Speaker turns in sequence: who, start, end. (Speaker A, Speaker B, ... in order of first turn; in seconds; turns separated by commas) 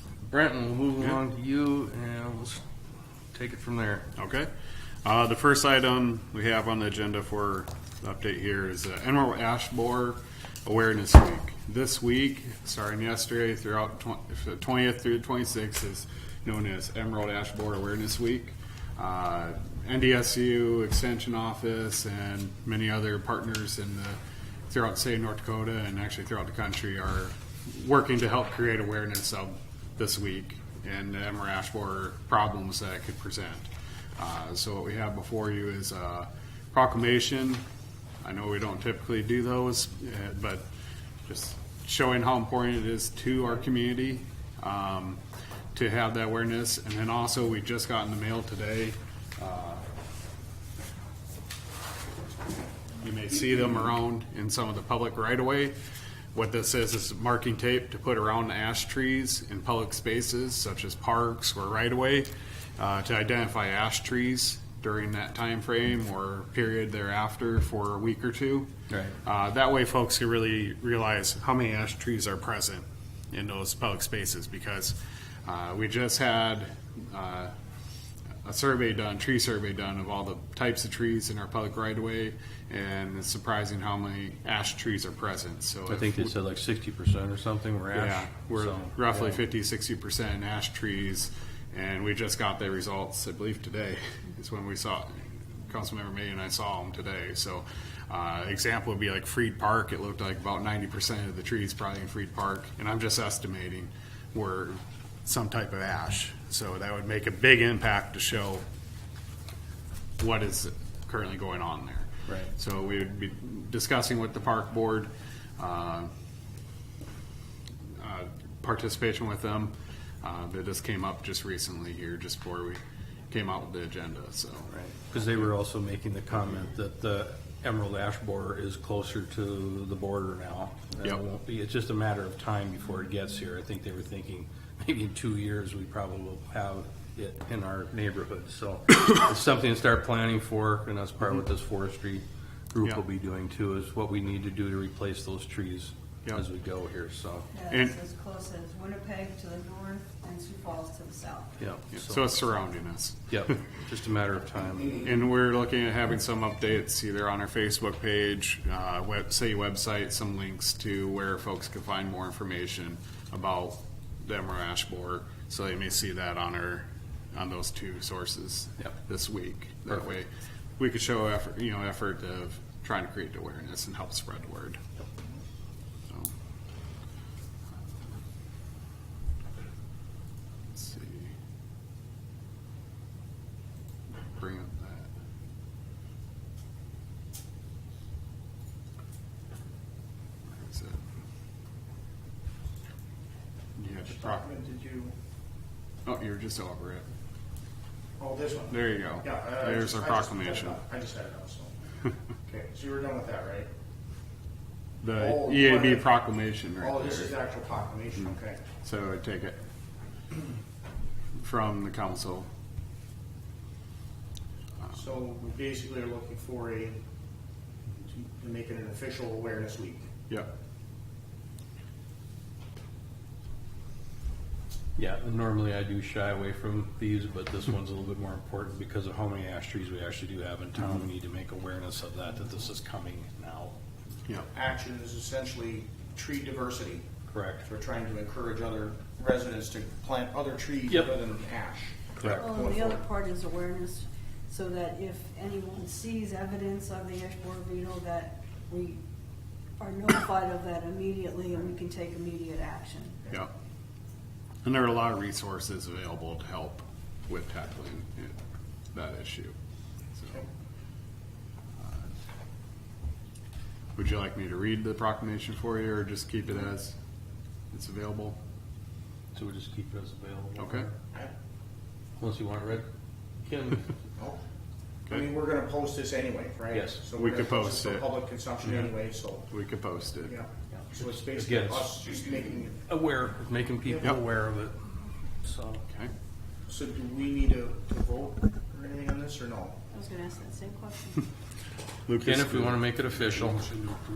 Speaker A: 0.3-2.6, Speaker A: 3.3-4.1, Speaker B: 4.2-4.5, Speaker B: 5.0-37.6, Speaker B: 38.2-40.6, Speaker B: 41.2-45.2, Speaker B: 45.7-49.8, Speaker B: 53.0-55.7, Speaker B: 56.3-68.7, Speaker A: 68.9-69.2, Speaker B: 69.2-77.5, Speaker B: 78.4-86.3, Speaker A: 85.9-89.4, Speaker B: 87.9-108.6, Speaker B: 110.2-116.1, Speaker B: 118.0-124.7, Speaker A: 124.7-147.5, Speaker C: 147.5-151.6, Speaker B: 147.7-147.9, Speaker A: 151.6-152.3, Speaker B: 151.9-153.3, Speaker A: 153.3-155.2, Speaker B: 155.0-174.8, Speaker B: 180.7-181.3, Speaker B: 184.3-185.1, Speaker B: 190.5-191.0, Speaker B: 193.8-194.4, Speaker D: 194.1-195.1, Speaker B: 196.0-197.0, Speaker D: 198.2-201.7, Speaker B: 198.7-200.8, Speaker D: 202.5-203.7, Speaker B: 205.0-207.4, Speaker D: 205.2-206.1, Speaker D: 206.8-208.6, Speaker B: 208.8-209.6, Speaker B: 211.4-212.5, Speaker D: 214.9-217.0, Speaker D: 218.0-220.1, Speaker A: 224.9-233.7, Speaker D: 234.5-237.1, Speaker A: 237.3-237.6, Speaker D: 237.6-243.0, Speaker A: 240.9-241.1, Speaker C: 242.3-249.0, Speaker C: 249.8-253.2, Speaker B: 254.6-258.3, Speaker B: 258.9-259.5, Speaker B: 260.1-260.5, Speaker B: 261.8-262.0, Speaker B: 263.9-266.9, Speaker B: 267.7-268.4, Speaker A: 269.3-270.9, Speaker B: 270.6-270.9, Speaker A: 272.2-272.9, Speaker A: 273.4-273.9, Speaker D: 275.1-279.5, Speaker A: 276.7-277.0, Speaker B: 277.1-278.9, Speaker B: 279.5-280.4, Speaker D: 280.2-282.9, Speaker A: 280.7-281.9, Speaker A: 282.9-284.8, Speaker D: 283.9-284.2, Speaker A: 285.4-285.8, Speaker B: 285.9-286.1, Speaker D: 286.7-289.8, Speaker C: 289.9-291.3, Speaker B: 292.1-292.8, Speaker A: 292.2-293.8